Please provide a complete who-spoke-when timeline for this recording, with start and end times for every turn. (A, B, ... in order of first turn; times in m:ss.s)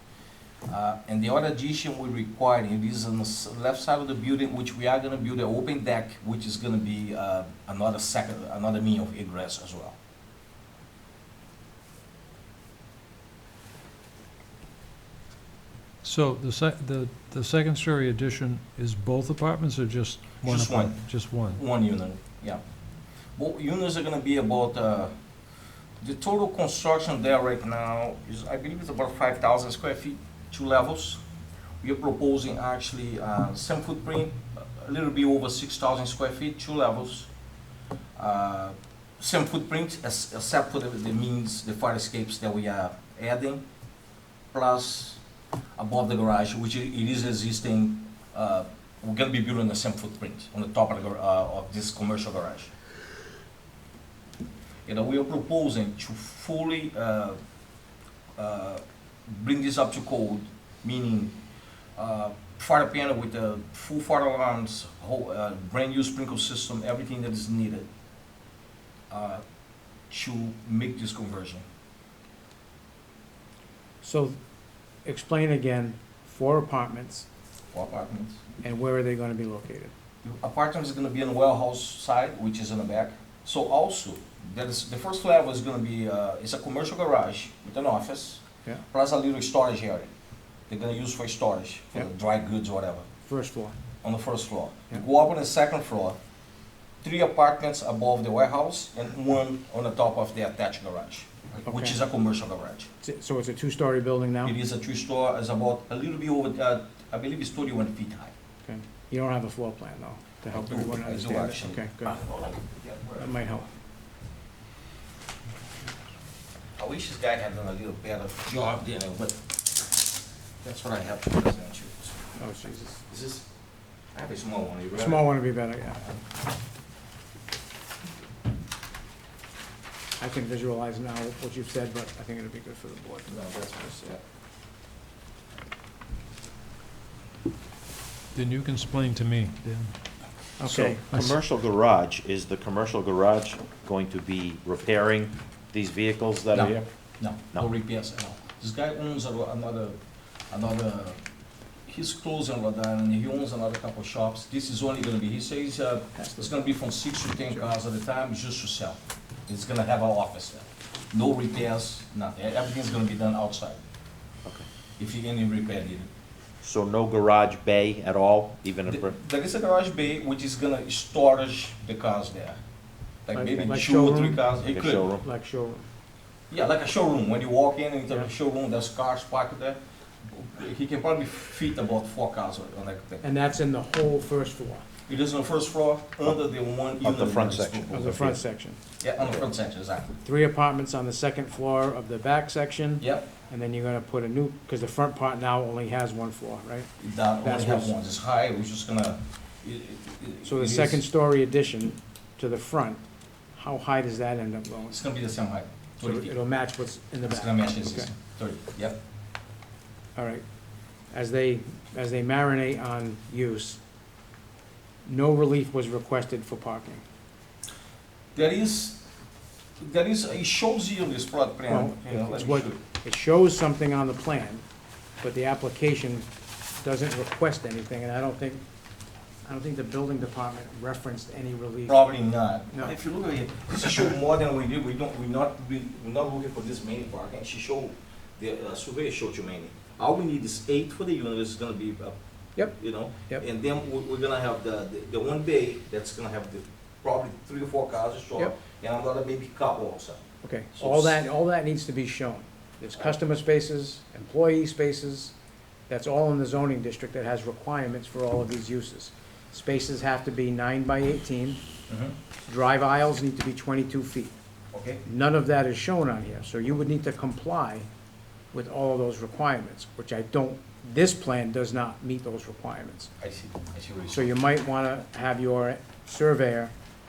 0:00.7-0:10.0 A
0:16.0-0:21.6 B
0:20.4-0:22.6 A
0:23.4-0:25.1 A
0:26.0-0:31.2 A
0:31.8-0:37.3 A
0:38.2-0:43.6 A
0:44.5-0:45.2 A
0:45.8-0:52.7 A
0:54.9-0:57.4 A
0:58.4-1:01.4 A
1:02.0-1:07.9 A
1:09.1-1:09.4 A
1:10.1-1:11.6 A
1:14.0-1:14.4 C
1:15.0-1:17.3 C
1:17.7-1:18.4 A
1:18.6-1:19.9 C
1:20.2-1:30.1 A
1:30.7-1:33.1 A
1:33.2-1:33.8 C
1:34.0-1:36.2 A
1:37.0-1:42.9 A
1:41.7-1:42.0 C
1:43.0-1:44.6 C
1:44.4-1:48.3 A
1:48.7-1:52.2 C
1:50.5-1:53.3 A
1:53.2-1:53.7 C
1:56.8-1:59.4 A
2:00.6-2:02.4 A
2:02.4-2:03.0 C
2:03.0-2:03.5 A
2:04.1-2:05.3 A
2:04.9-2:06.1 C
2:10.2-2:13.3 C
2:13.3-2:14.2 A
2:18.3-2:19.9 B
2:20.6-2:21.3 C
2:20.6-2:26.8 D
2:26.5-2:30.0 A
2:30.5-2:31.2 A
2:31.9-2:43.8 A
2:36.2-2:36.5 C
2:45.0-2:46.1 A
2:46.6-2:49.2 D
2:48.9-2:52.6 A
2:53.3-2:55.1 A
2:53.3-2:54.6 C
2:54.7-2:55.2 D
2:55.2-2:55.9 C
2:56.5-3:03.2 A
3:03.2-3:04.8 C
3:05.1-3:08.3 A
3:07.0-3:08.4 D
3:07.9-3:08.8 C
3:09.0-3:10.2 A
3:10.2-3:16.9 C
3:13.0-3:13.3 A
3:17.0-3:21.0 A
3:17.4-3:17.9 C
3:20.4-3:23.0 C
3:23.6-3:25.0 C
3:24.9-3:26.3 A
3:26.0-3:28.1 C
3:27.3-3:29.0 A
3:30.2-3:30.4 C
3:31.1-3:33.8 C
3:35.1-3:37.0 C
3:38.4-3:39.0 A
3:39.8-3:42.8 A
3:41.7-3:44.6 C
3:45.2-3:46.3 C
3:46.8-3:48.6 C
3:49.4-3:52.0 C
3:51.9-4:10.2 A
4:10.4-4:15.3 C
4:10.8-4:11.3 A
4:15.9-4:21.6 C
4:21.9-4:22.2 A
4:22.5-4:24.3 C
4:24.7-4:25.0 A
4:25.0-4:27.9 C
4:28.5-4:33.1 C
4:33.2-4:34.3 A
4:34.1-4:36.7 C